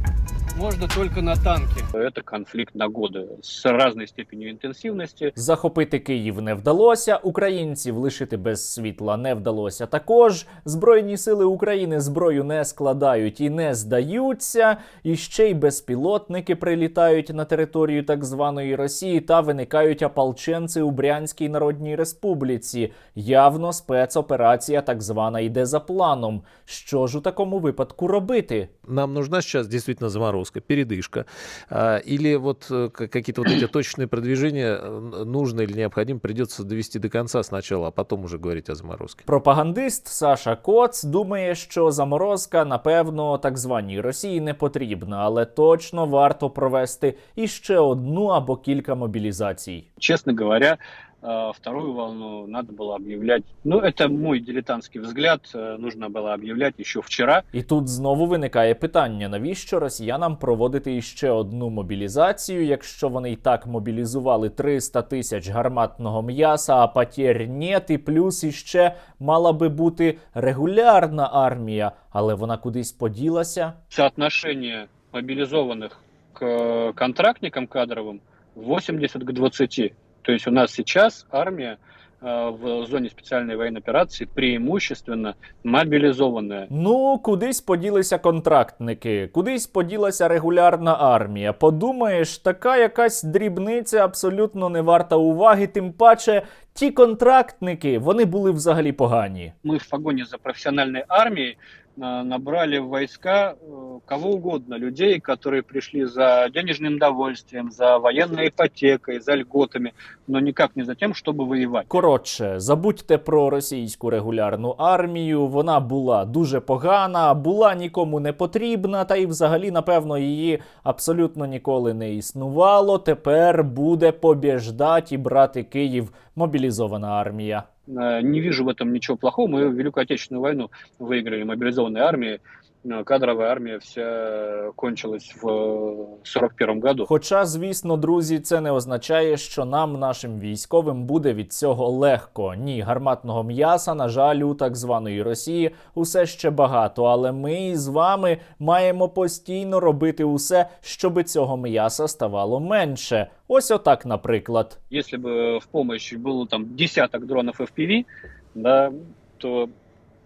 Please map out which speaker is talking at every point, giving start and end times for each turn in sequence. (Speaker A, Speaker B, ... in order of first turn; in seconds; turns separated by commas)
Speaker A: 0.5-5.3, Speaker B: 5.4-28.7, Speaker C: 28.9-39.2, Speaker B: 39.3-49.9, Speaker A: 50.0-57.5, Speaker B: 57.5-73.8, Speaker A: 73.9-86.7, Speaker B: 86.7-99.5, Speaker A: 99.7-111.9, Speaker B: 111.9-127.7, Speaker A: 127.9-137.1, Speaker B: 137.1-154.8, Speaker A: 154.9-159.7